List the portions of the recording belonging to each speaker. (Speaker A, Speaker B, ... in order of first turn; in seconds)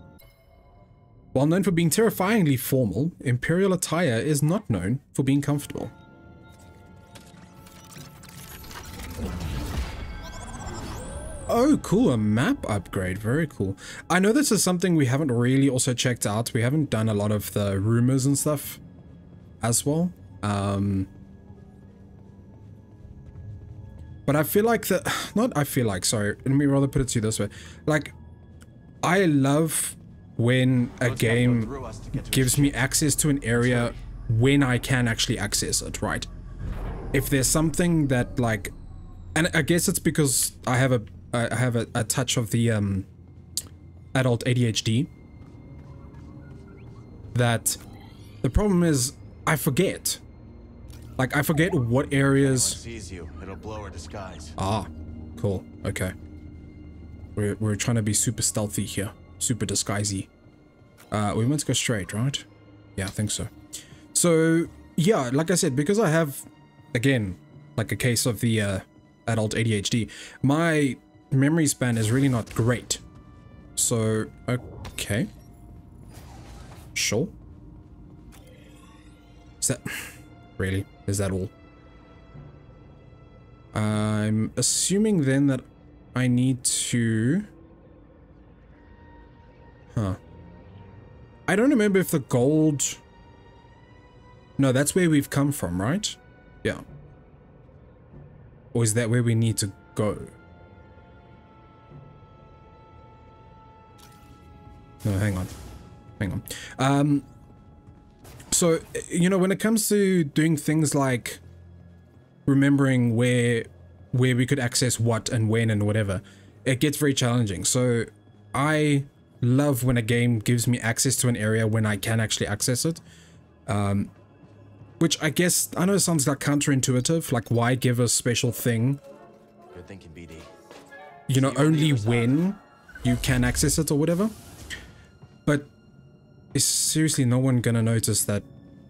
Speaker A: 1.3-5.9, 11.5-18.8, 19.6-21.1, 24.2-28.1, 29.0-36.3, 37.1-38.7, 39.3-43.1, 44.1-45.1, 47.3-47.8, 48.4-50.2, 51.2-52.8, 54.6-56.1, 57.4-60.3, 61.1-62.5, 63.0-63.5, 64.1-73.0, 73.8-75.3, 76.9-77.3, 79.6-81.5, 83.7-87.5, 91.5-93.0, 94.6-96.8, 98.7-100.3, 105.0-105.5, 106.2-107.3, 108.5-111.4, 112.5-123.0, 123.7-124.1, 125.0-129.0, 131.3-134.3, 136.5-138.4
Speaker B: 31.0-33.0, 33.5-34.0, 52.3-54.6, 129.7-130.5, 131.3-132.5